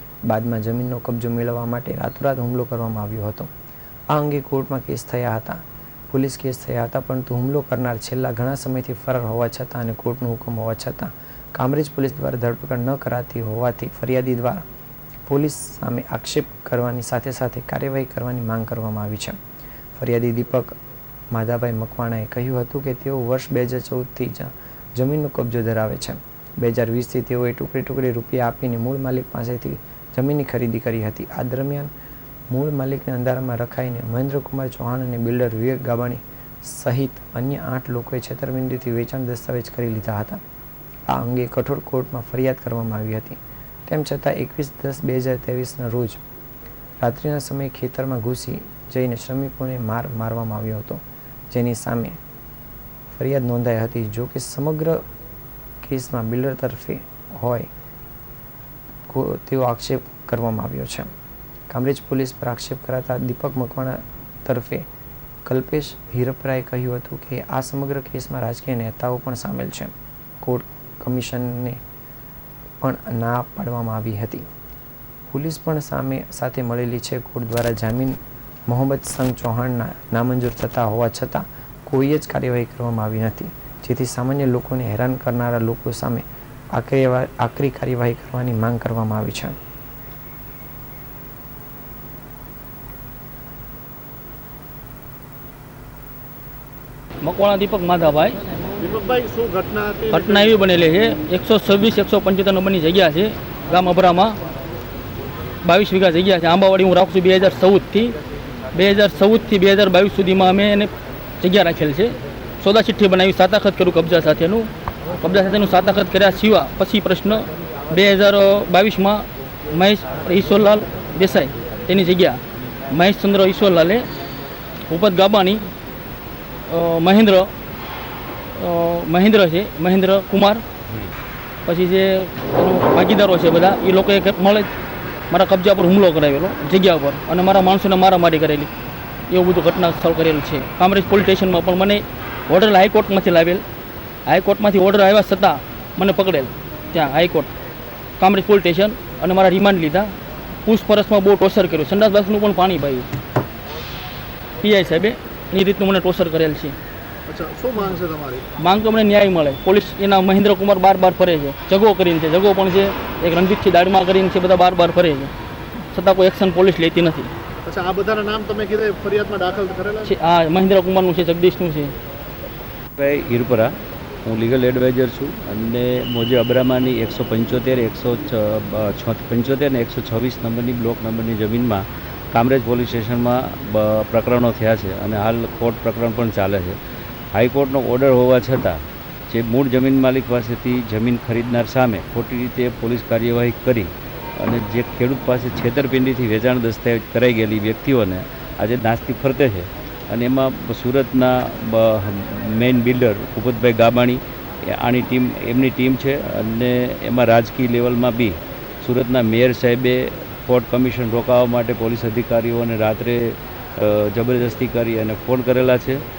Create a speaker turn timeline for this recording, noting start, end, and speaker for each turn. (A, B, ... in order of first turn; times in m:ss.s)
0:00.3-0:03.5 A
0:04.1-0:14.6 A
0:15.3-0:19.4 A
0:20.0-0:20.8 A
0:21.3-0:31.9 A
0:32.5-0:40.4 A
0:41.1-0:46.2 A
0:47.0-0:52.2 A
0:53.1-0:55.0 A
0:55.8-0:57.7 A
0:59.1-1:01.1 A
1:01.7-1:04.9 A
1:05.5-1:11.8 A
1:12.8-1:14.5 A
1:15.3-1:29.6 A
1:37.2-1:38.4 B
1:38.8-1:40.6 C
1:40.1-1:44.4 B
1:45.6-1:48.2 B
1:48.8-1:54.7 B
1:55.2-2:02.4 B
2:02.9-2:04.1 B
2:04.9-2:05.6 B
2:06.7-2:07.5 B
2:08.6-2:10.6 B
2:11.7-2:14.7 B
2:15.3-2:18.7 B
2:19.3-2:23.6 B
2:24.3-2:27.5 B
2:28.2-2:30.1 B
2:30.6-2:33.1 B
2:34.6-2:36.8 B
2:37.3-2:38.4 C
2:38.6-2:45.3 B
2:45.9-2:47.3 B
2:47.6-2:50.1 C
2:50.0-2:51.9 B
2:53.0-2:53.7 D
2:54.2-3:06.8 D
3:07.3-3:36.0 D